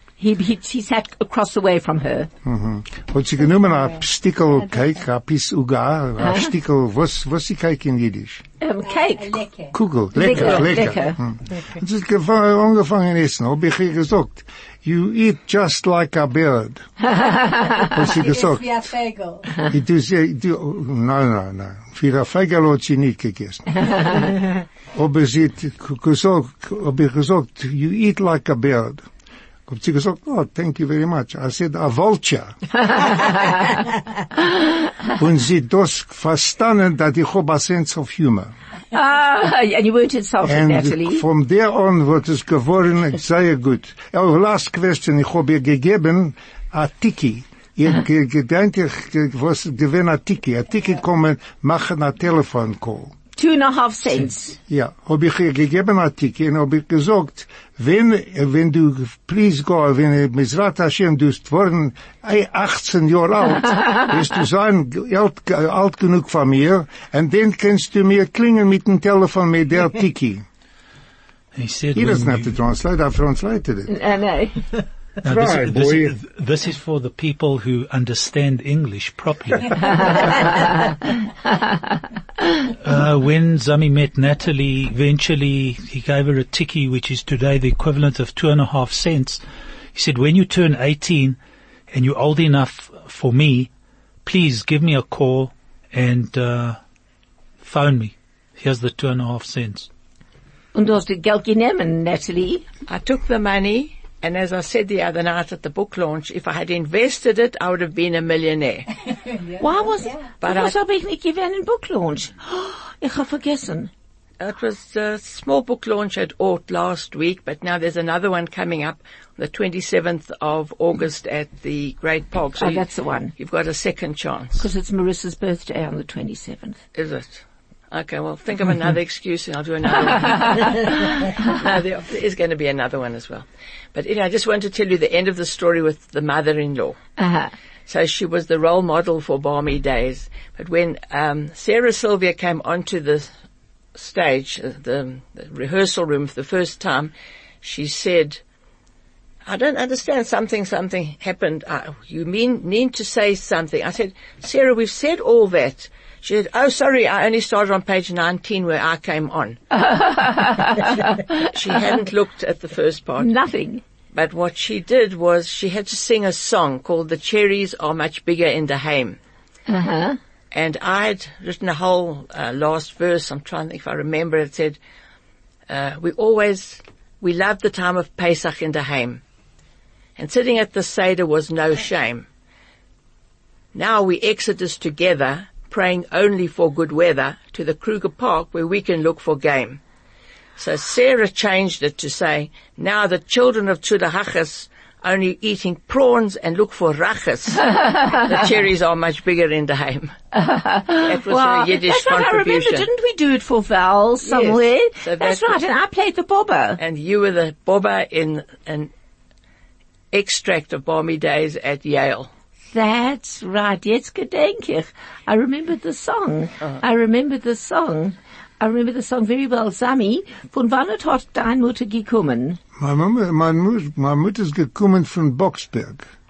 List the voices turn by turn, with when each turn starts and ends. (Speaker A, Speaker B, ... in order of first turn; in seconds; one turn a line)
Speaker A: 0.2-2.3
Speaker B: 2.5-8.4
Speaker A: 6.2-6.5
Speaker A: 8.6-9.4
Speaker C: 8.8-10.9
Speaker B: 9.7-16.9
Speaker A: 10.2-11.2
Speaker C: 17.4-19.7
Speaker A: 17.4-17.7
Speaker B: 17.9-18.7
Speaker B: 19.7-24.3
Speaker B: 24.9-29.1
Speaker B: 29.7-33.2
Speaker B: 35.1-38.5
Speaker A: 38.9-41.2
Speaker B: 40.4-53.1
Speaker A: 53.4-54.6
Speaker B: 54.7-70.5
Speaker D: 71.6-72.5
Speaker B: 71.9-73.9
Speaker A: 73.9-74.6
Speaker B: 75.2-76.1
Speaker D: 75.2-80.9
Speaker D: 82.8-89.4
Speaker D: 89.9-91.4
Speaker D: 91.9-93.7
Speaker D: 94.2-96.8
Speaker D: 97.6-99.9
Speaker A: 100.7-102.7
Speaker E: 102.9-108.9
Speaker A: 109.6-113.9
Speaker E: 110.4-110.7
Speaker E: 114.4-124.7
Speaker A: 122.6-123.3
Speaker A: 124.6-126.8
Speaker E: 127.0-137.0
Speaker A: 137.2-137.5
Speaker E: 137.9-143.3
Speaker E: 143.9-148.4
Speaker E: 149.5-159.6
Speaker A: 159.7-161.7
Speaker E: 161.5-163.3
Speaker A: 163.2-163.8
Speaker E: 164.1-169.2
Speaker A: 169.7-170.2
Speaker E: 170.5-174.8
Speaker E: 175.7-179.2
Speaker E: 180.2-182.3
Speaker E: 183.7-189.8
Speaker E: 190.6-200.2
Speaker A: 200.3-206.8
Speaker E: 201.0-202.9
Speaker E: 204.2-205.6
Speaker E: 206.8-208.9
Speaker E: 210.1-212.3
Speaker A: 212.7-222.6
Speaker B: 222.8-226.1